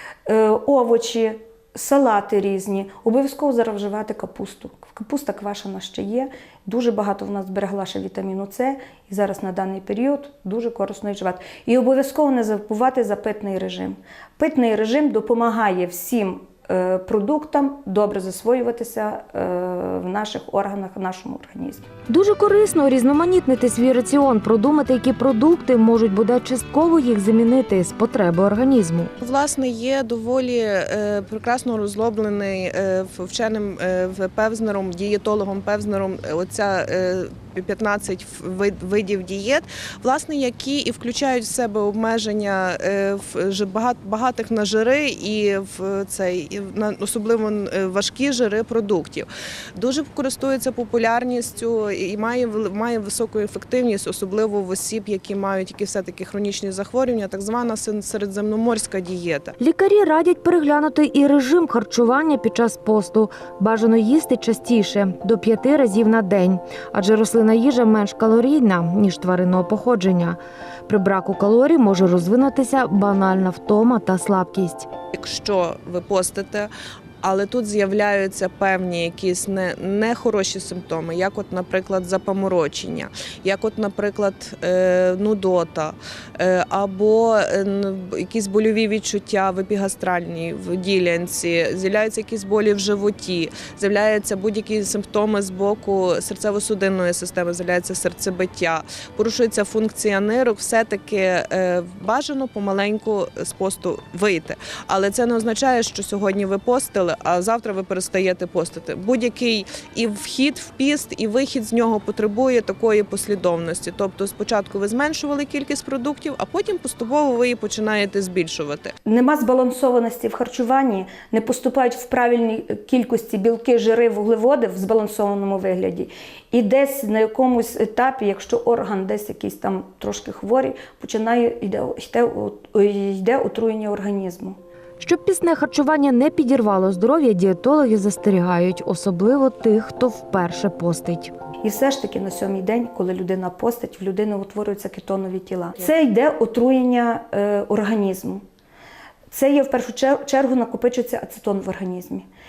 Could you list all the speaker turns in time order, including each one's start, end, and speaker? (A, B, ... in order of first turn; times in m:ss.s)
0:00.3-0:21.8 A
0:22.1-0:29.1 B
0:29.2-0:59.5 C
0:59.6-1:14.9 B
1:15.1-1:16.7 C
1:17.2-1:58.9 C
1:59.0-2:14.6 A
2:15.0-2:21.3 B
2:21.6-2:28.4 A
2:29.3-2:32.3 A